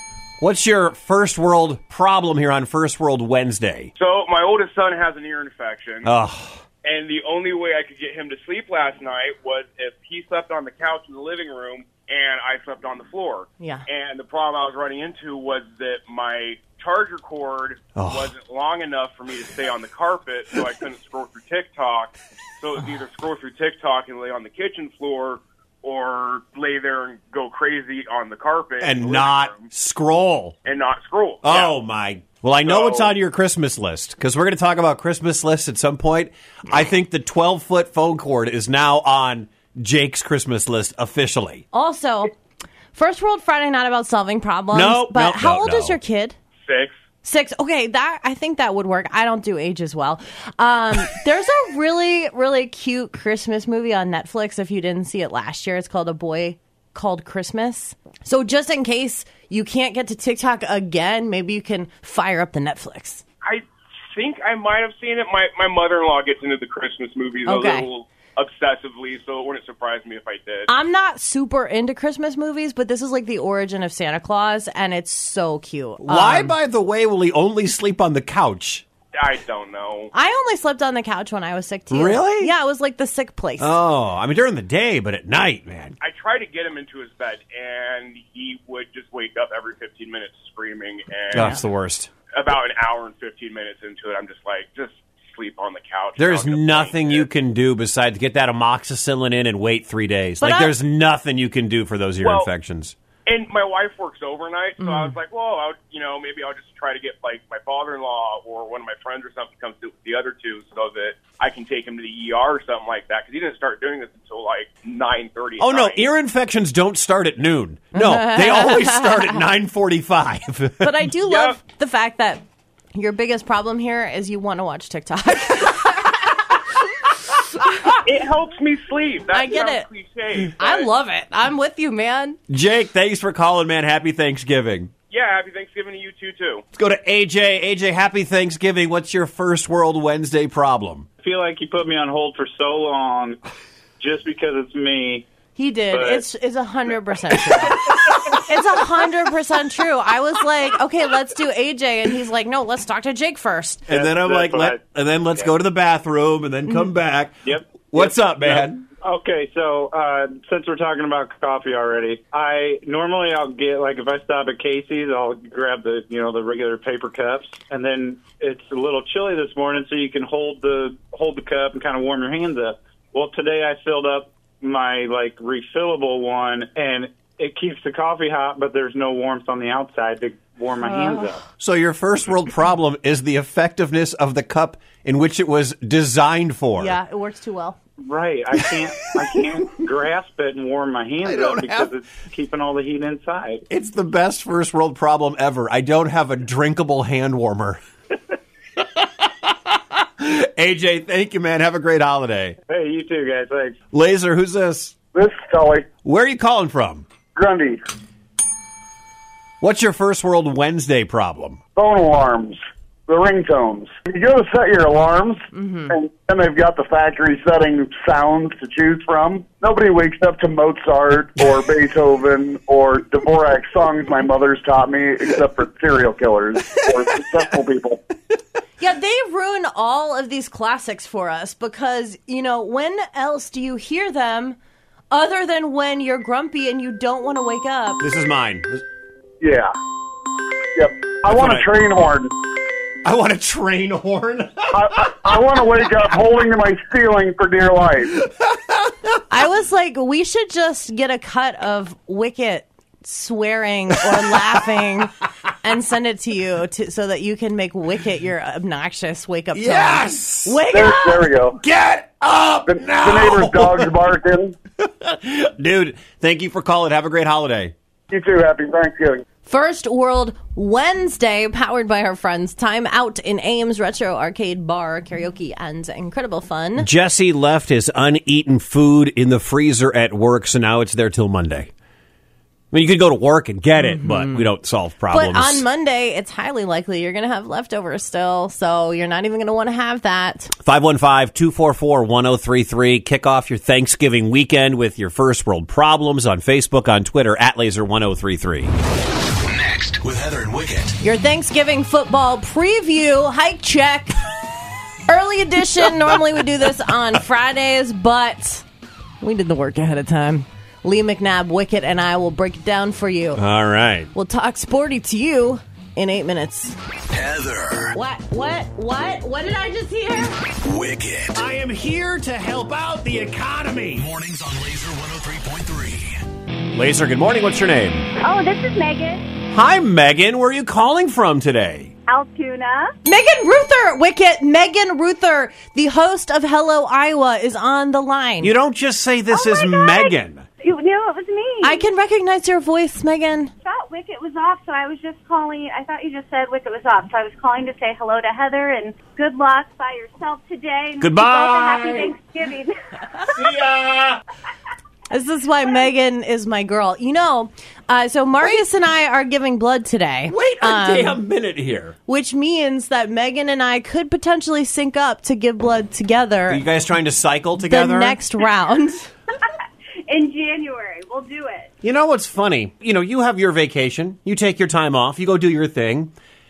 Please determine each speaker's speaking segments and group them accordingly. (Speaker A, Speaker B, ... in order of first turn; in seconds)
Speaker A: 0.4-3.9, 6.0-6.6, 17.9-18.3, 28.8-30.6, 31.4-41.6, 44.7-46.0, 76.0-78.8, 81.9-82.5, 83.6-86.0, 91.3-92.1, 96.2-103.0, 115.6-121.0, 132.5-134.9, 136.8-141.1, 153.9-158.8, 181.6-187.0, 191.2-191.9, 193.7-197.8, 198.8-202.6, 203.9-204.9, 206.1-207.1, 209.6-211.6, 238.0-238.8, 241.3-241.7, 243.0-245.3, 248.5-248.9, 259.5-260.7, 261.5-263.9, 264.8-267.7, 276.8-281.7, 282.7-285.6, 290.6-298.7, 313.4-314.1, 321.3-324.1, 326.7-328.1, 329.5-331.9, 338.4-340.4, 351.0-352.1, 353.3-354.2, 360.3-362.0, 366.5-368.2, 371.8-376.1
Speaker B: 4.0-6.1, 6.8-29.7, 30.6-31.8, 32.6-33.2, 46.6-47.0, 63.4-70.7, 79.1-80.1, 86.0-91.6, 92.3-97.3, 102.2-102.5, 103.3-116.0, 121.2-121.6, 128.0-130.9, 135.1-136.6
Speaker C: 13.6-13.8, 41.7-42.3, 42.9-46.4, 47.2-63.2, 67.5-67.9, 70.7-76.6, 80.1-83.7, 100.4-100.8, 104.8-105.2, 117.9-119.4, 120.8-122.4, 123.0-126.4, 129.3-129.9, 130.6-132.4, 145.6-153.9, 181.0-181.2, 186.8-187.8, 215.5-215.9, 228.8-234.6, 235.1-238.0, 249.3-261.3, 269.5-276.9, 283.8-284.4, 285.1-290.5, 301.0-304.2, 305.1-308.6, 309.2-313.4, 314.1-316.8, 317.9-320.4, 333.1-338.5, 341.6-343.5, 355.1-361.2, 362.1-366.6, 367.6-369.1
Speaker D: 141.2-143.4, 144.0-145.3, 145.9-146.3, 153.9-154.8, 157.4-181.4, 188.0-193.7, 202.7-203.8
Speaker E: 205.1-205.9, 207.4-207.8, 211.8-228.0, 239.4-239.7, 240.8-242.3, 244.7-248.2, 260.7-261.6, 262.7-264.6, 268.1-269.2
Speaker F: 299.5-301.0, 317.1-317.9, 320.6-321.4, 324.0-326.2
Speaker G: 328.2-329.3, 332.1-332.9, 339.3-341.9, 343.6-352.8, 370.1-371.7